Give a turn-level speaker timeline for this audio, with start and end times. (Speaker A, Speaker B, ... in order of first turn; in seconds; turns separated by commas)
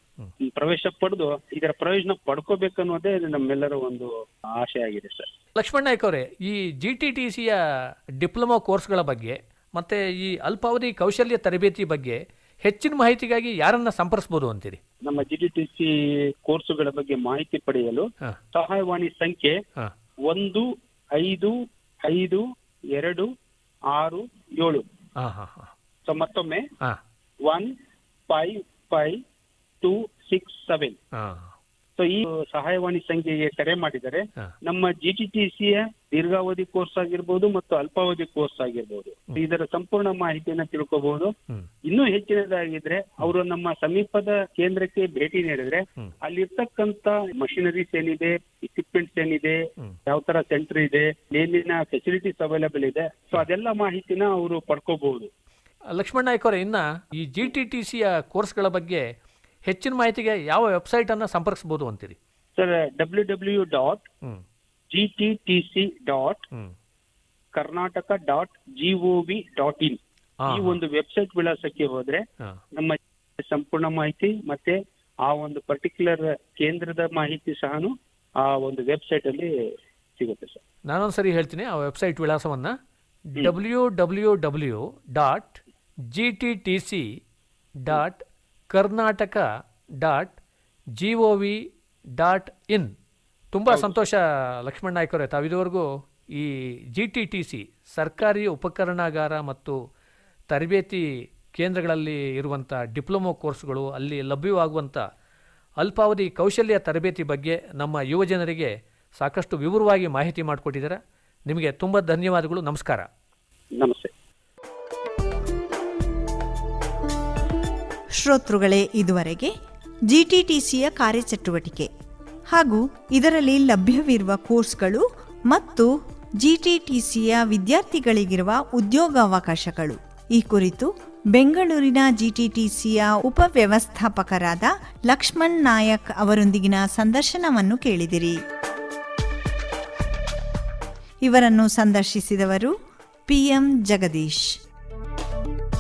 Speaker A: 0.4-5.3, Speaker B: 5.5-7.6, Speaker B: 8.2-14.8, Speaker A: 15.0-19.6, Speaker A: 20.3-23.3, Speaker A: 23.9-24.8, Speaker B: 25.2-25.7, Speaker A: 26.1-26.7, Speaker A: 27.4-27.7, Speaker A: 28.3-29.2, Speaker A: 29.8-31.0, Speaker B: 31.1-31.5, Speaker A: 31.9-41.3, Speaker A: 41.9-55.3, Speaker B: 55.9-59.0, Speaker B: 59.6-62.1, Speaker A: 62.5-64.0, Speaker A: 64.9-66.5, Speaker A: 67.5-79.5, Speaker B: 70.4-70.8, Speaker A: 80.2-80.6, Speaker B: 80.8-82.8, Speaker B: 83.3-87.1, Speaker B: 87.8-89.5, Speaker B: 90.0-90.4, Speaker B: 91.0-92.9, Speaker B: 93.5-99.8, Speaker B: 100.5-105.0, Speaker B: 105.8-113.1, Speaker A: 113.8-114.1, Speaker C: 118.1-119.5, Speaker C: 120.1-121.9, Speaker C: 122.5-125.9, Speaker C: 126.4-138.4, Speaker C: 141.2-142.7, Speaker C: 143.3-144.6